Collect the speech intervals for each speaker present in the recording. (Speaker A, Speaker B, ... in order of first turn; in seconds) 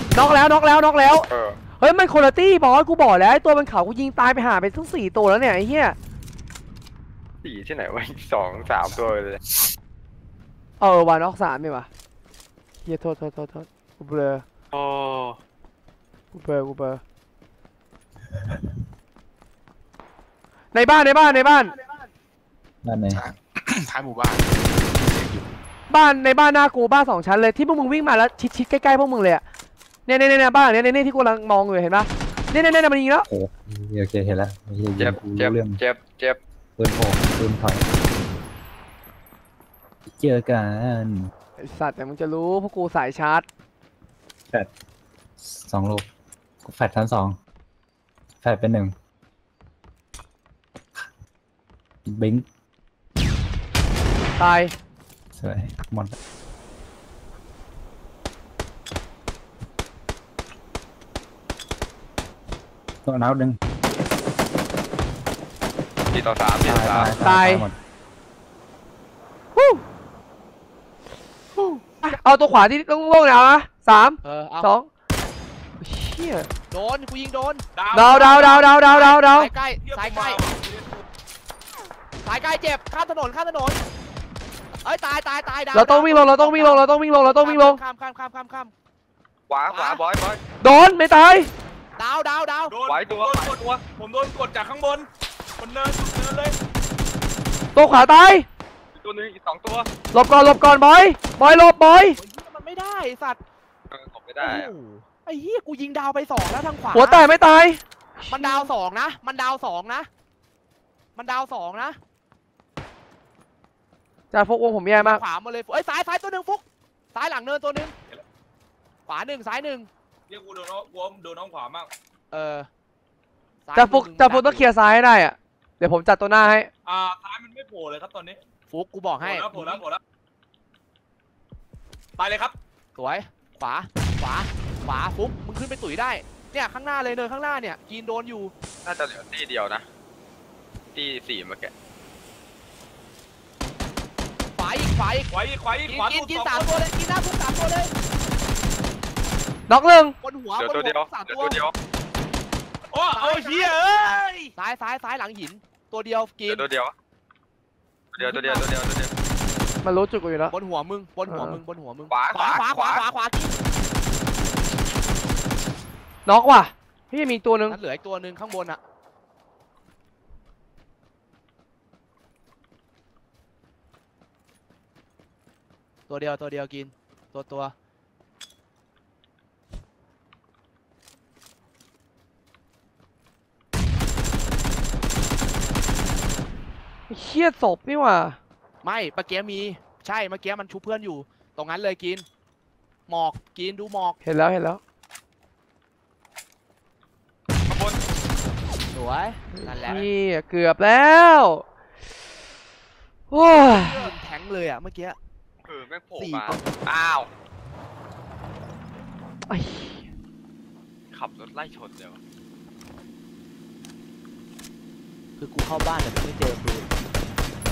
Speaker A: 0.1-1.2, 1.8-5.9, 10.8-11.9, 12.8-14.4, 16.3-17.0, 20.7-21.7, 25.9-29.4, 30.1-33.3, 41.6-43.5, 54.4-54.7, 67.2-67.7, 69.5-69.8, 71.6-74.9, 75.8-76.5, 77.9-79.5, 85.7-87.8, 90.6-91.5, 97.7-98.5, 100.1-102.2, 106.9-108.7, 114.3-115.2, 123.8-126.7, 149.7-150.1, 159.8-160.5, 161.3-161.6, 166.2-167.8, 187.1-188.4, 194.2-194.8, 199.5-201.6, 203.3-204.1, 209.5-210.0
Speaker B: 1.3-1.6, 7.4-9.4, 14.7-15.4, 35.0-36.4, 66.1-67.2, 89.5-90.4, 92.8-93.8, 99.0-99.9, 103.9-104.7, 138.8-139.8, 140.9-141.7, 150.6-151.7, 156.5-156.9, 158.1-159.1, 162.1-163.0, 197.7-198.0, 205.6-207.3, 211.1-212.2
Speaker C: 22.8-23.2, 33.3-35.8, 36.8-37.9, 40.1-41.3, 45.4-46.1, 46.6-47.4, 48.4-48.9, 52.0-52.4, 55.4-56.1, 63.0-63.6, 66.6-67.8
Speaker D: 23.1-25.5
Speaker E: 74.2-74.7, 76.7-77.6, 78.2-80.4, 82.2-83.8, 84.8-88.7, 89.7-90.0, 92.0-92.8, 102.1-103.4, 104.4-107.3, 108.3-110.1, 111.2-112.0, 115.0-117.9, 119.1-119.9, 122.3-122.7, 123.7-124.7, 128.7-129.8, 132.9-138.5, 144.6-145.3, 145.8-147.9, 150.2-151.6, 153.1-153.7, 154.5-156.6, 158.2-158.6, 160.5-163.5, 167.7-168.8, 176.1-177.7, 188.8-192.2, 193.1-194.2, 198.9-200.1, 203.5-205.2, 206.2-206.6, 215.4-216.9
Speaker F: 77.7-78.5, 79.8-81.0, 92.7-96.6, 120.3-121.9, 126.8-128.4, 129.2-130.0, 132.2-132.6, 145.3-146.9, 152.9-154.5